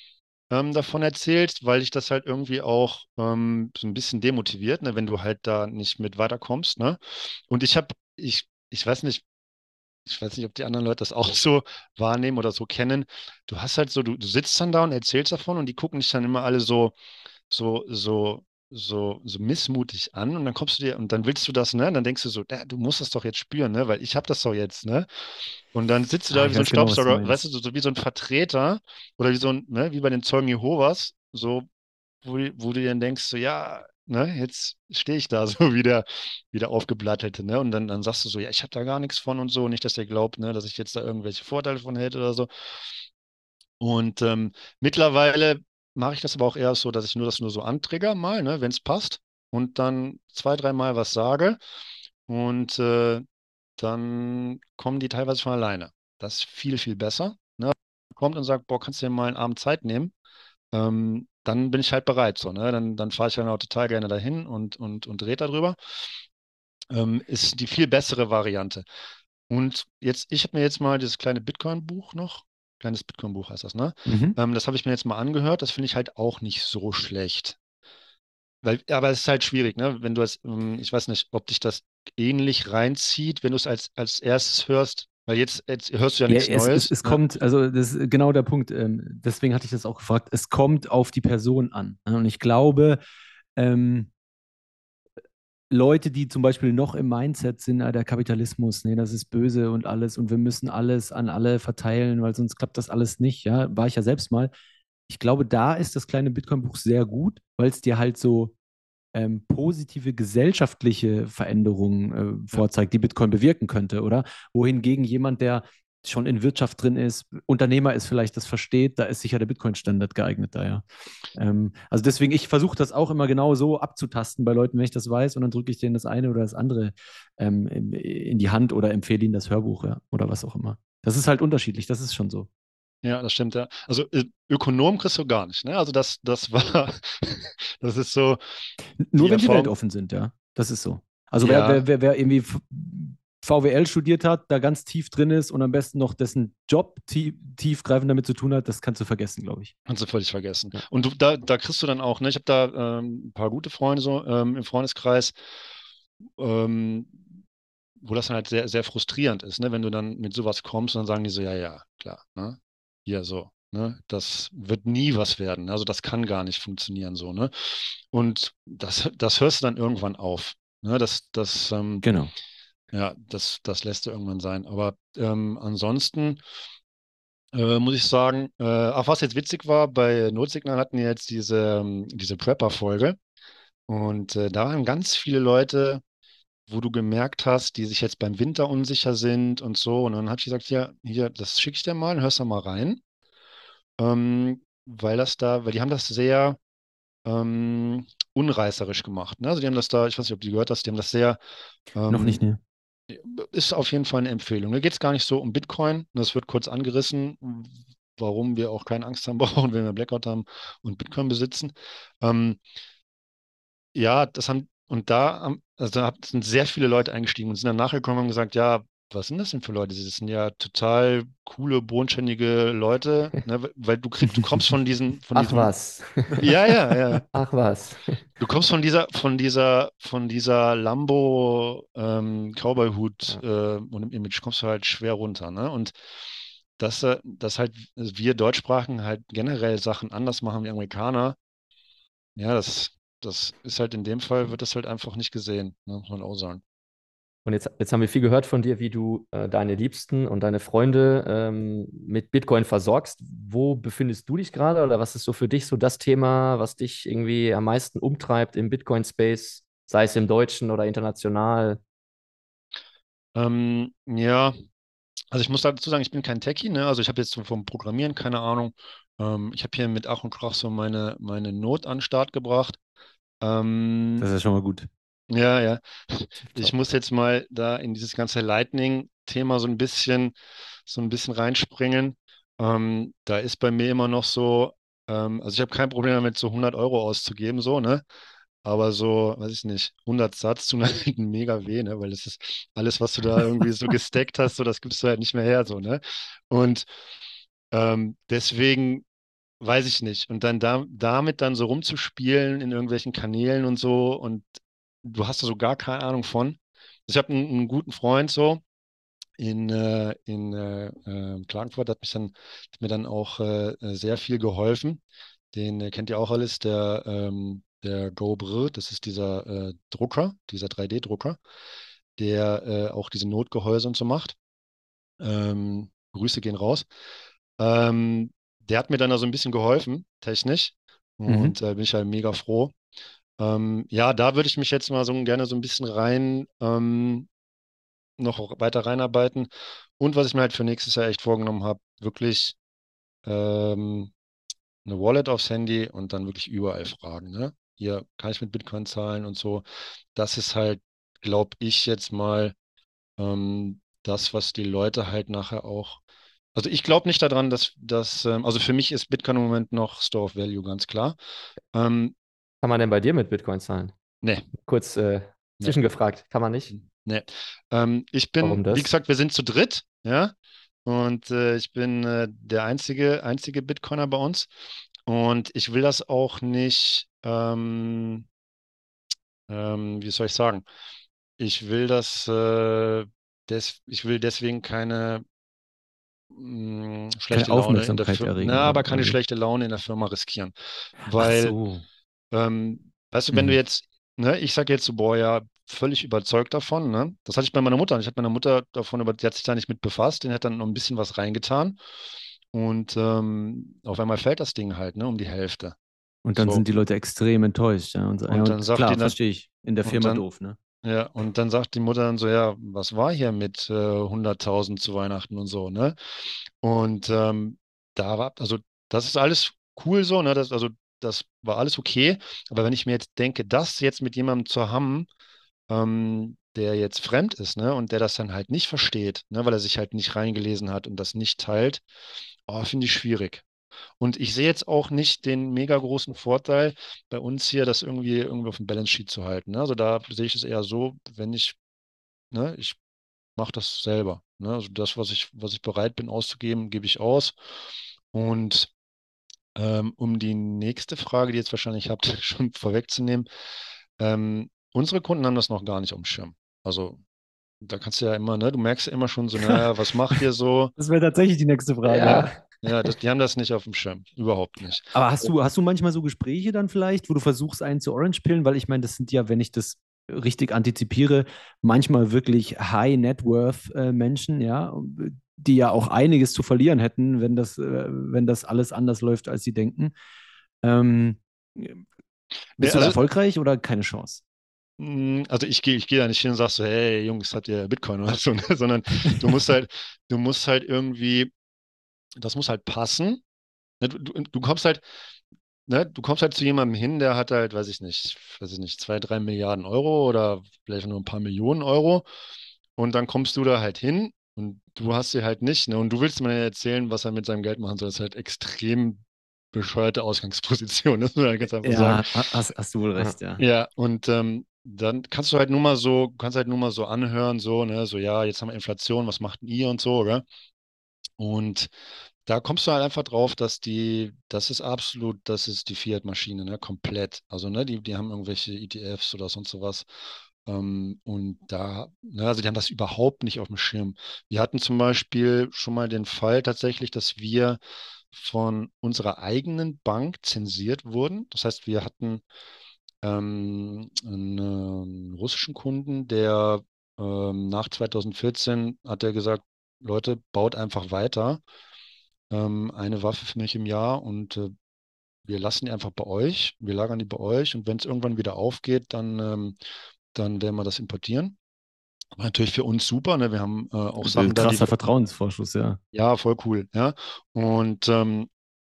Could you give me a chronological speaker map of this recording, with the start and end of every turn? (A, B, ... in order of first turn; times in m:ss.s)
0:00.5-0:09.2 A
0:10.1-0:16.9 A
0:17.5-0:25.1 A
0:25.7-0:31.7 A
0:26.3-0:27.4 B
0:32.2-0:42.5 A
0:43.8-0:51.6 A
0:52.3-0:53.2 A
0:53.8-1:00.1 A
1:00.7-1:05.8 A
1:06.9-1:08.8 A
1:09.5-1:17.6 A
1:14.1-1:14.4 B
1:18.6-1:27.2 A
1:26.3-1:33.0 B
1:33.6-1:34.1 B
1:35.7-1:44.5 B
1:45.1-1:48.5 B
1:49.1-2:00.8 B
2:01.4-2:12.5 B
2:13.0-2:18.4 A
2:19.0-2:29.7 B
2:19.2-2:19.8 A
2:21.4-2:21.8 A
2:29.9-2:35.4 A
2:36.4-2:37.2 A
2:38.0-2:52.1 A
2:52.0-2:52.3 B
2:52.9-2:56.4 A
2:57.5-3:03.2 A
3:03.9-3:06.0 A
3:06.7-3:13.0 A
3:14.0-3:16.6 A
3:17.2-3:21.4 A
3:21.9-3:22.4 A
3:22.1-3:22.6 B
3:23.1-3:32.6 A
3:33.9-3:45.7 A
3:45.3-3:46.5 C
3:46.4-3:47.2 A
3:47.3-3:48.2 C
3:48.4-3:55.9 A
3:56.8-4:01.4 A
4:02.4-4:06.6 A
4:07.5-4:21.8 C
4:23.4-4:24.5 A
4:25.3-4:32.8 A
4:33.4-4:34.3 A
4:34.2-4:34.9 B
4:35.3-4:40.4 A
4:40.9-4:48.0 A
4:48.6-4:56.9 A
4:57.7-4:59.0 A
4:59.6-5:04.5 A
5:05.0-5:08.6 A
5:09.4-5:15.0 A
5:15.5-5:21.4 A
5:22.2-5:24.4 A
5:25.2-5:26.9 A
5:27.6-5:32.8 A
5:31.3-5:31.6 B
5:33.4-5:37.3 A
5:38.2-5:42.6 A
5:43.2-5:44.1 A
5:44.8-5:49.6 A
5:50.2-5:52.5 A
5:53.2-5:56.0 A
5:56.5-6:01.2 A
6:01.7-6:02.2 A
6:02.6-6:03.9 C
6:04.2-6:04.5 A
6:04.6-6:06.7 C
6:06.8-6:10.3 A
6:08.4-6:08.9 C
6:10.8-6:14.5 A
6:15.1-6:18.2 A
6:19.5-6:20.6 A
6:21.4-6:25.2 A
6:26.3-6:30.5 A
6:27.3-6:29.2 B
6:31.0-6:31.8 B
6:31.1-6:31.6 A
6:32.3-6:41.8 A
6:42.5-6:45.8 A
6:46.2-6:50.6 B
6:46.4-6:46.6 A
6:48.3-6:49.2 A
6:49.8-6:50.2 A
6:50.8-6:56.0 A
6:56.6-7:05.1 A
7:05.7-7:11.8 A
7:12.5-7:13.4 A
7:14.0-7:21.6 A
7:22.3-7:22.8 A
7:23.4-7:27.4 A
7:28.1-7:28.7 A
7:29.6-7:33.2 A
7:34.0-7:37.0 A
7:37.6-7:40.8 A
7:40.8-7:42.4 B
7:41.8-7:42.4 C
7:42.0-7:44.9 A
7:44.9-7:59.9 B
8:00.6-8:01.8 B
8:02.6-8:04.2 B
8:02.6-8:03.0 A
8:04.8-8:11.3 A
8:12.2-8:13.2 A
8:13.8-8:14.8 A
8:15.7-8:22.0 A
8:22.8-8:29.0 A
8:29.5-8:32.1 A
8:31.6-8:33.4 B
8:33.4-8:40.2 A
8:41.2-8:41.7 A
8:42.2-8:49.8 A
8:50.4-8:57.6 A
8:58.1-9:02.2 A
9:03.0-9:11.4 A
9:12.3-9:14.5 A
9:15.2-9:19.6 A
9:20.1-9:21.4 A
9:22.1-9:24.7 A
9:24.0-9:25.8 B
9:25.9-9:28.3 A